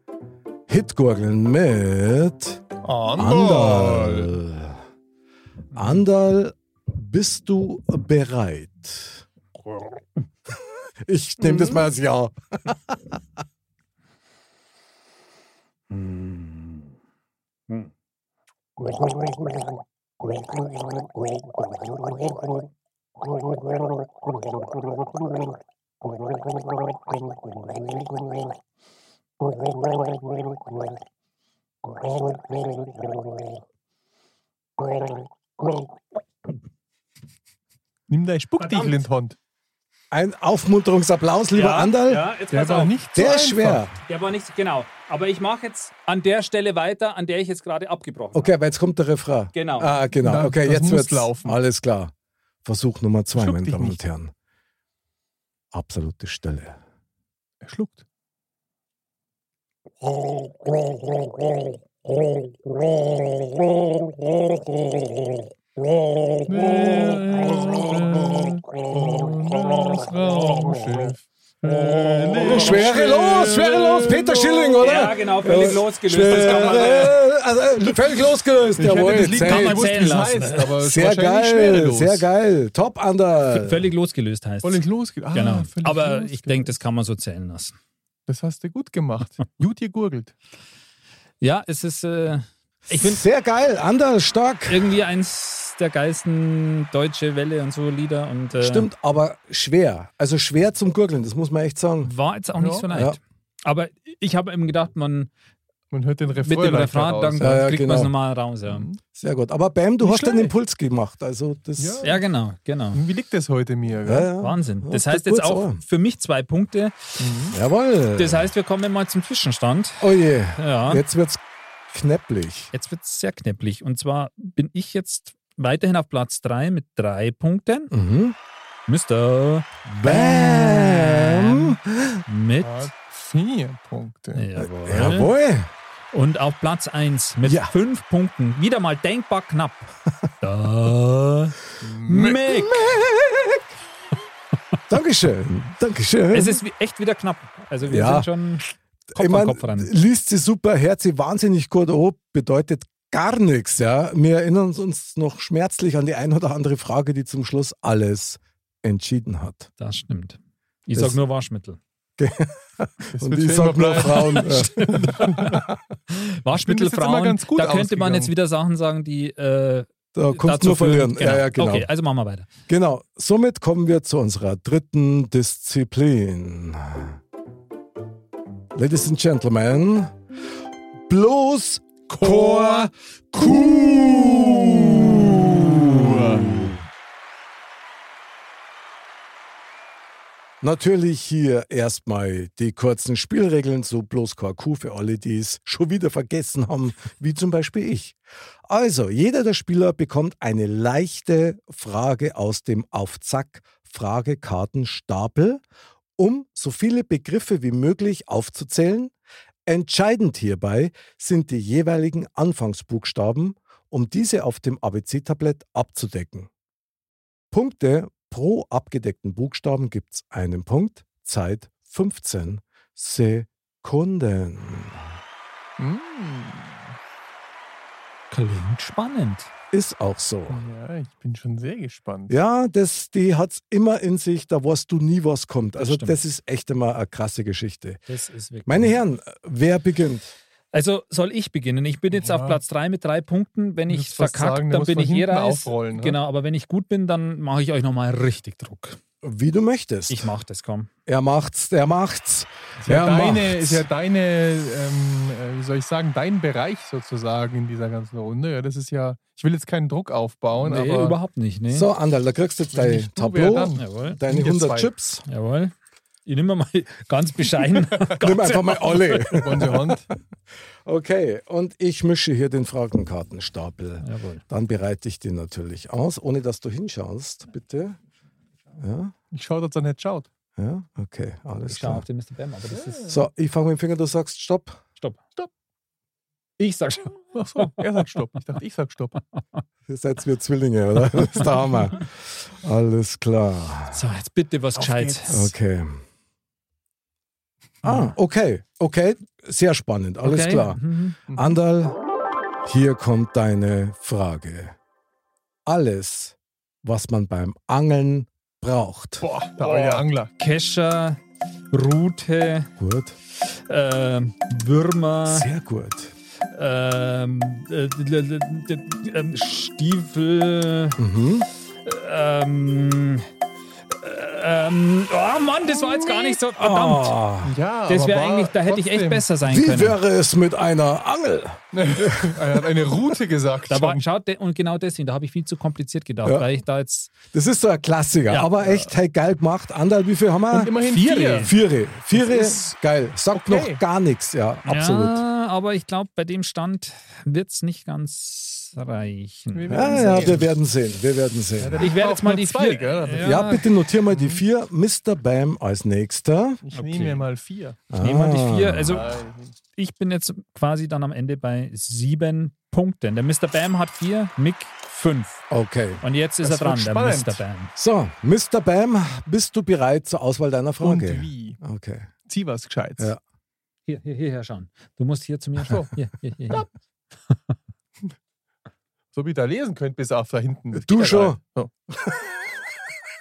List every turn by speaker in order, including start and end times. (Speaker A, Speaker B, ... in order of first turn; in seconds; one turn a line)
Speaker A: 0.7-2.6
Speaker B: 2.8-4.3
Speaker A: 3.1-4.8
Speaker A: 5.7-9.2
Speaker A: 11.0-13.2
Speaker C: 15.9-16.9
Speaker B: 38.1-39.4
Speaker C: 38.6-38.9
Speaker A: 40.1-42.3
Speaker C: 41.5-42.9
Speaker B: 42.5-43.9
Speaker A: 43.1-43.9
Speaker C: 44.0-48.5
Speaker A: 48.3-52.1
Speaker C: 49.5-49.9
Speaker B: 50.2-51.6
Speaker A: 52.6-54.3
Speaker B: 53.4-54.0
Speaker A: 55.7-56.8
Speaker B: 57.6-58.0
Speaker B: 66.5-75.2
Speaker A: 72.4-80.0
Speaker C: 72.5-72.8
Speaker C: 74.8-77.2
Speaker B: 76.3-77.1
Speaker B: 78.8-82.3
Speaker C: 79.3-80.7
Speaker A: 80.8-83.9
Speaker C: 83.5-87.7
Speaker B: 84.6-86.8
Speaker B: 88.3-90.3
Speaker C: 91.4-93.2
Speaker A: 92.9-94.8
Speaker C: 94.7-98.9
Speaker A: 98.6-102.1
Speaker C: 102.0-105.3
Speaker B: 102.6-102.8
Speaker A: 102.9-103.2
Speaker B: 105.9-107.6
Speaker C: 106.4-108.8
Speaker A: 107.4-108.1
Speaker B: 108.7-109.0
Speaker A: 109.1-112.0
Speaker B: 110.0-110.5
Speaker B: 111.8-112.2
Speaker C: 112.0-113.0
Speaker B: 112.9-114.3
Speaker A: 114.0-115.8
Speaker C: 114.4-117.2
Speaker B: 117.2-117.5
Speaker A: 117.5-118.5
Speaker C: 118.2-121.0
Speaker A: 120.0-122.7
Speaker C: 122.7-127.9
Speaker A: 127.9-128.3
Speaker C: 128.9-132.9
Speaker A: 129.9-132.2
Speaker B: 132.6-134.4
Speaker C: 134.3-135.3
Speaker A: 134.6-135.7
Speaker C: 136.1-142.8
Speaker A: 137.4-137.7
Speaker B: 141.8-142.4
Speaker A: 142.4-143.7
Speaker A: 144.9-146.6
Speaker C: 146.3-149.9
Speaker A: 147.8-148.3
Speaker A: 149.1-159.7
Speaker C: 159.8-161.8
Speaker A: 162.2-165.7
Speaker B: 163.1-165.6
Speaker C: 164.8-165.4
Speaker C: 166.1-172.5
Speaker B: 166.5-168.3
Speaker A: 170.1-171.9
Speaker A: 172.7-177.2
Speaker A: 178.7-180.1
Speaker A: 181.1-186.8
Speaker C: 182.1-182.8
Speaker C: 184.1-186.7
Speaker A: 190.6-205.6
Speaker A: 206.2-209.1
Speaker A: 209.7-216.5
Speaker A: 217.5-225.1
Speaker B: 225.8-226.9
Speaker C: 228.3-229.5
Speaker A: 229.7-230.6
Speaker B: 230.5-232.3
Speaker A: 232.3-238.0
Speaker C: 235.8-236.2
Speaker C: 238.1-239.0
Speaker A: 238.7-240.3
Speaker C: 240.7-249.0
Speaker B: 242.1-242.6
Speaker B: 243.9-246.2
Speaker A: 249.2-250.3
Speaker C: 250.1-250.9
Speaker A: 251.1-253.8
Speaker B: 252.8-261.2
Speaker C: 260.6-261.9
Speaker A: 261.7-265.2
Speaker B: 262.7-264.9
Speaker C: 263.8-264.2
Speaker C: 265.3-265.7
Speaker C: 266.2-269.4
Speaker A: 268.2-270.0
Speaker B: 269.3-270.1
Speaker A: 270.8-278.0
Speaker C: 274.0-274.4
Speaker A: 278.8-279.1
Speaker B: 279.3-280.3
Speaker A: 280.6-282.0
Speaker C: 281.7-283.1
Speaker B: 282.7-283.2
Speaker A: 283.1-284.8
Speaker C: 286.6-287.7
Speaker B: 287.3-289.2
Speaker A: 289.9-294.0
Speaker C: 293.9-295.5
Speaker B: 294.8-295.4
Speaker A: 295.3-296.0
Speaker A: 297.8-302.0
Speaker C: 297.8-298.1
Speaker C: 300.2-301.2
Speaker B: 301.3-301.6
Speaker A: 302.6-304.7
Speaker A: 305.6-309.3
Speaker B: 309.2-310.3
Speaker C: 309.6-311.2
Speaker C: 311.7-312.7
Speaker A: 312.8-313.1
Speaker C: 313.3-315.5
Speaker A: 315.3-316.1
Speaker C: 316.5-321.0
Speaker A: 321.0-321.5
Speaker C: 321.8-323.2
Speaker C: 323.9-327.2
Speaker B: 325.7-326.4
Speaker A: 326.6-327.5
Speaker B: 327.4-329.3
Speaker C: 327.9-330.0
Speaker A: 329.4-332.6
Speaker B: 331.7-334.0
Speaker C: 333.7-337.1
Speaker A: 337.3-340.7
Speaker B: 338.6-338.9
Speaker B: 340.5-341.6
Speaker C: 340.8-341.5
Speaker A: 341.4-345.2
Speaker B: 342.1-342.8
Speaker B: 343.3-343.8
Speaker C: 344.6-350.4
Speaker B: 349.5-350.5
Speaker A: 349.7-351.9
Speaker B: 351.6-354.4
Speaker C: 351.8-353.7
Speaker A: 353.2-356.6
Speaker B: 356.6-357.8
Speaker C: 356.7-357.2
Speaker A: 357.9-359.0
Speaker C: 357.9-359.0
Speaker B: 358.9-359.5
Speaker C: 359.8-365.4
Speaker A: 365.5-366.0
Speaker C: 366.0-367.7
Speaker B: 366.4-367.4
Speaker A: 367.8-372.1
Speaker B: 370.8-371.6
Speaker B: 372.2-373.1
Speaker C: 373.9-376.6
Speaker B: 379.1-381.7
Speaker A: 380.7-381.4